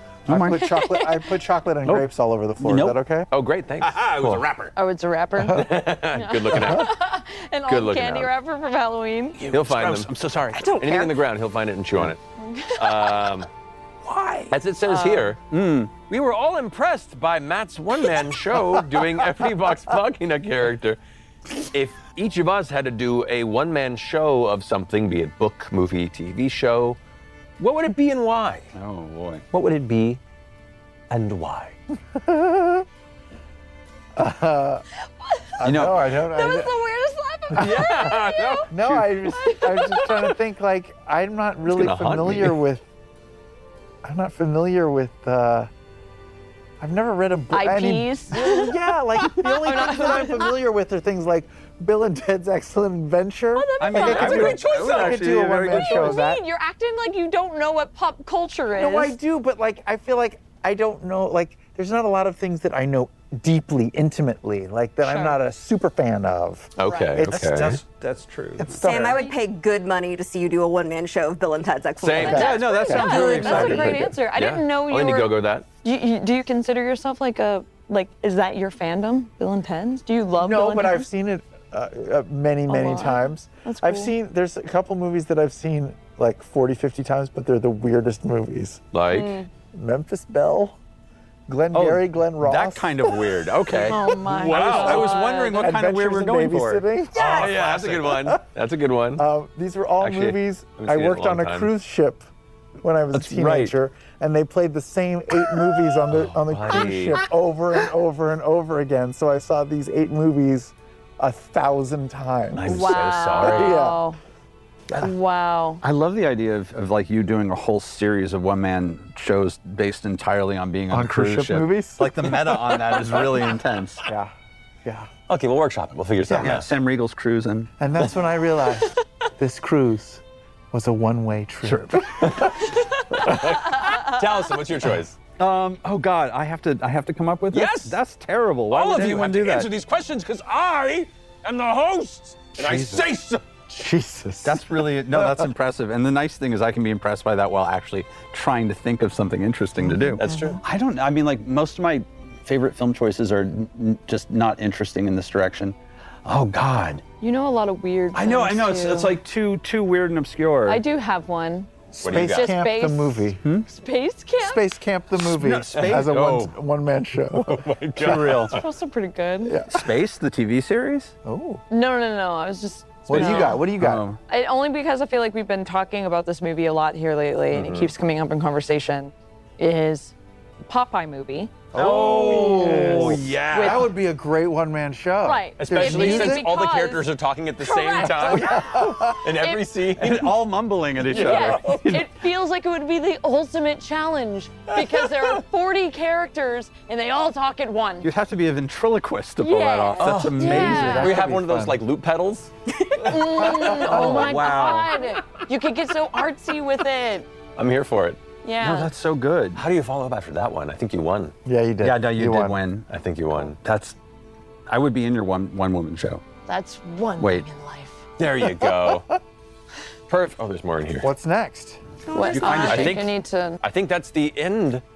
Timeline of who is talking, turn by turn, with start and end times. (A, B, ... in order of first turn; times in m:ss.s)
0:00.3-0:00.6 A
0:00.3-0:03.3 B
0:00.5-0:01.3 C
0:02.6-0:03.0 A
0:03.3-0:04.7 D
0:03.8-0:04.7 A
0:04.8-0:09.4 C
0:05.4-0:05.8 B
0:05.5-0:06.9 D
0:07.7-0:08.3 D
0:09.4-0:11.1 A
0:09.4-0:12.2 D
0:12.4-0:13.4 C
0:12.7-0:13.5 D
0:14.0-0:14.5 A
0:14.5-0:15.4 D
0:14.8-0:15.4 C
0:15.5-0:15.9 A
0:16.1-0:21.0 D
0:21.7-0:27.0 D
0:27.6-0:28.7 D
0:28.7-0:29.4 A
0:29.5-0:30.2 D
0:31.1-0:31.8 D
0:32.1-0:32.8 B
0:34.2-0:34.8 B
0:35.4-0:35.6 C
0:35.6-0:36.8 B
0:35.6-0:36.0 A
0:36.1-0:38.7 C
0:37.5-0:37.9 B
0:37.6-0:38.8 D
0:38.7-0:42.8 B
0:39.3-0:40.3 C
0:41.7-0:42.6 D
0:44.0-0:45.7 B
0:46.8-0:56.4 B
0:47.5-0:50.6 C
0:53.5-0:54.9 C
0:53.8-0:56.2 A
0:54.0-0:55.7 D
0:55.7-0:59.2 C
0:58.7-1:07.8 B
1:05.0-1:05.4 C
1:06.8-1:07.8 D
1:06.8-1:07.2 C
1:07.3-1:08.8 A
1:08.6-1:09.2 B
1:08.8-1:12.7 E
1:08.9-1:09.3 C
1:12.0-1:12.6 D
1:12.2-1:14.2 B
1:12.2-1:15.3 C
1:12.2-1:14.1 A
1:14.3-1:15.6 D
1:15.8-1:21.1 C
1:20.4-1:28.8 B
1:22.7-1:24.1 C
1:28.9-1:29.4 D
1:29.1-1:29.4 E
1:29.7-1:30.8 B
1:31.5-1:33.4 B
1:31.7-1:36.9 A
1:33.6-1:35.4 D
1:33.8-1:35.7 C
1:35.6-1:38.4 B
1:37.2-1:39.2 D
1:37.5-1:37.9 A
1:39.2-1:42.2 B
1:40.0-1:41.7 D
1:42.8-1:54.0 B
1:43.1-1:43.7 D
1:46.1-1:47.2 D
1:52.6-1:53.8 D
1:52.6-1:54.2 C
1:54.9-1:55.8 C
1:55.8-2:04.0 A
2:00.9-2:02.4 B
2:03.0-2:03.2 D
2:04.0-2:04.3 B
2:04.8-2:05.1 B
2:05.3-2:06.7 D
2:06.2-2:06.6 B
2:06.4-2:07.7 A
2:07.8-2:12.6 B
2:11.6-2:12.4 A
2:12.2-2:12.5 D
2:13.1-2:15.2 D
2:13.8-2:14.1 C
2:15.4-2:19.7 A
2:17.5-2:18.0 D
2:18.7-2:23.4 D
2:22.6-2:23.1 B
2:23.7-2:25.5 B
2:24.4-2:37.0 A
2:29.8-2:30.6 B
2:30.2-2:30.6 D
2:37.2-2:39.1 C
2:38.1-2:40.8 A
2:40.6-2:44.6 C
2:41.9-2:43.4 B
2:42.0-2:42.5 D
2:44.4-2:48.4 B
2:45.2-2:46.5 A
2:45.8-2:46.2 D
2:47.4-2:48.6 D
2:48.0-2:48.6 A
2:48.5-2:49.6 C
2:49.4-2:49.9 B
2:49.7-2:51.1 A
2:51.2-2:51.6 B
2:51.7-2:53.6 C
2:53.1-2:54.0 B
2:53.1-2:54.2 A
2:54.3-3:00.1 C
2:57.5-2:57.9 D
3:00.6-3:01.5 C
3:01.7-3:06.5 B
3:01.7-3:03.6 A
3:01.8-3:03.8 D
3:03.5-3:03.9 C
3:05.2-3:07.1 C
3:05.6-3:10.4 D
3:07.6-3:09.7 C
3:08.3-3:09.2 B
3:10.0-3:12.1 A
3:11.0-3:11.8 D
3:11.1-3:18.1 C
3:18.0-3:21.3 A
3:19.4-3:21.2 C
3:20.0-3:22.5 D
3:20.4-3:21.8 B
3:23.0-3:27.3 C
3:23.1-3:23.8 D
3:23.4-3:25.0 A
3:24.0-3:24.2 B
3:27.6-3:28.2 D
3:28.4-3:28.9 C
3:28.6-3:29.6 A
3:29.5-3:31.3 D
3:31.4-3:32.6 B
3:31.8-3:32.9 A
3:32.9-3:33.6 D
3:33.6-3:34.0 A
3:34.7-3:36.2 A
3:36.5-3:38.0 C
3:37.2-3:37.4 A
3:38.2-3:39.1 D
3:38.6-3:38.9 B
3:40.1-3:41.1 D
3:41.0-3:41.8 B
3:42.1-3:42.8 E
3:42.1-3:43.6 C
3:42.3-3:43.0 A
3:42.5-3:44.8 D